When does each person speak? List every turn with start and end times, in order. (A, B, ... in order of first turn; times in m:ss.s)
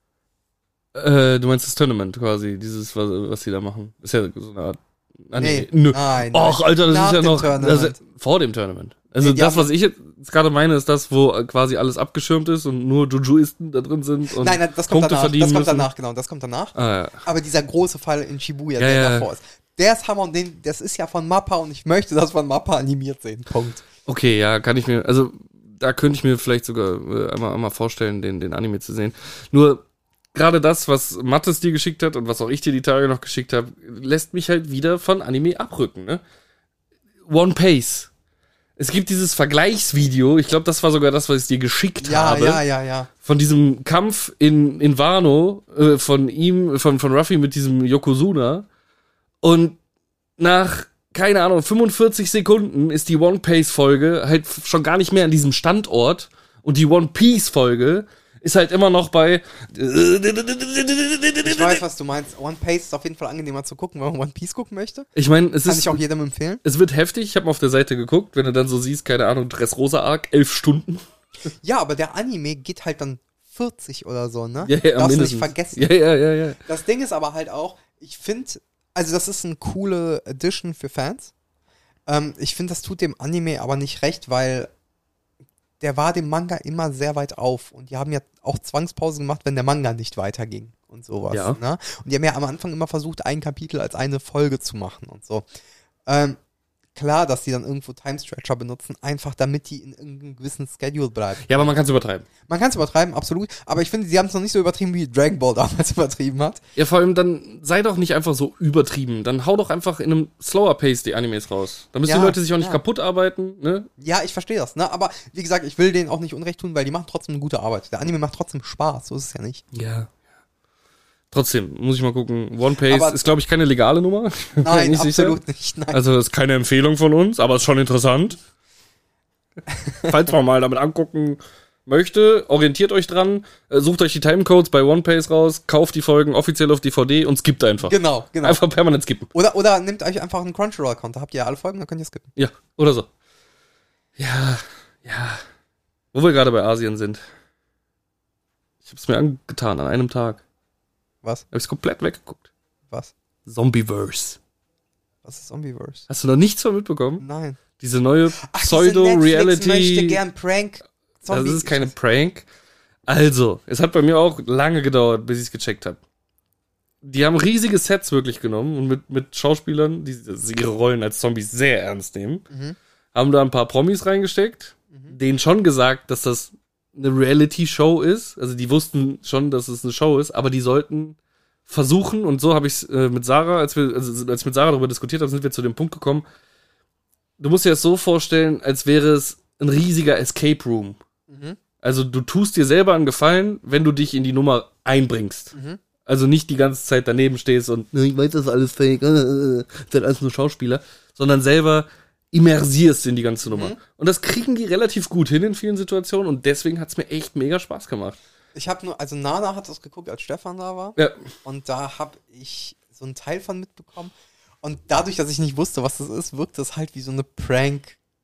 0:00.9-0:15.9 A
0:05.3-0:08.0 B
0:09.1-0:09.7 B
0:14.3-0:23.8 B
0:16.7-0:17.2 A
0:18.8-0:19.3 A
0:24.0-0:29.8 A
0:30.3-0:36.2 A
0:37.2-0:38.1 A
0:38.8-0:42.6 A
0:42.0-0:43.1 B
0:43.2-0:48.7 A
0:49.4-0:49.8 A
0:50.4-1:01.8 A
1:01.4-1:05.1 B
1:05.1-1:06.0 A
1:05.6-1:06.6 B
1:06.6-1:11.0 A
1:11.6-1:15.9 B
1:14.6-1:16.6 A
1:16.6-1:21.3 B
1:22.1-1:24.7 B
1:25.8-1:35.4 B
1:31.3-1:31.6 A
1:36.1-1:36.4 B
1:36.9-1:41.8 B
1:41.4-1:42.2 A
1:42.4-1:46.6 B
1:46.8-1:53.9 A
1:52.0-1:52.8 B
1:54.0-1:59.6 B
1:59.7-2:00.2 A
2:01.3-2:05.4 A
2:02.9-2:03.2 B
2:04.6-2:06.0 B
2:05.9-2:08.4 A
2:09.7-2:10.1 B
2:10.1-2:19.3 A
2:17.8-2:18.6 B
2:19.3-2:22.3 B
2:22.4-2:23.1 A
2:24.2-2:25.4 A
2:26.1-2:27.2 A
2:28.8-2:30.4 A
2:31.5-2:32.5 A
2:33.4-2:34.4 A
2:35.2-2:36.1 B
2:36.1-2:37.2 A
2:37.2-2:37.6 B
2:37.8-2:40.2 A
2:38.4-2:41.9 B
2:41.3-2:42.5 A
2:43.1-2:46.0 A
2:47.0-2:52.4 A
2:52.5-2:52.8 B
2:53.1-3:06.2 A
2:54.9-2:55.2 B
3:07.4-3:11.0 A
3:11.3-3:11.6 B
3:11.8-3:15.5 A
3:15.5-3:15.8 B
3:16.0-3:28.2 A
3:23.4-3:23.8 B
3:28.5-3:34.1 B
3:34.6-3:38.0 B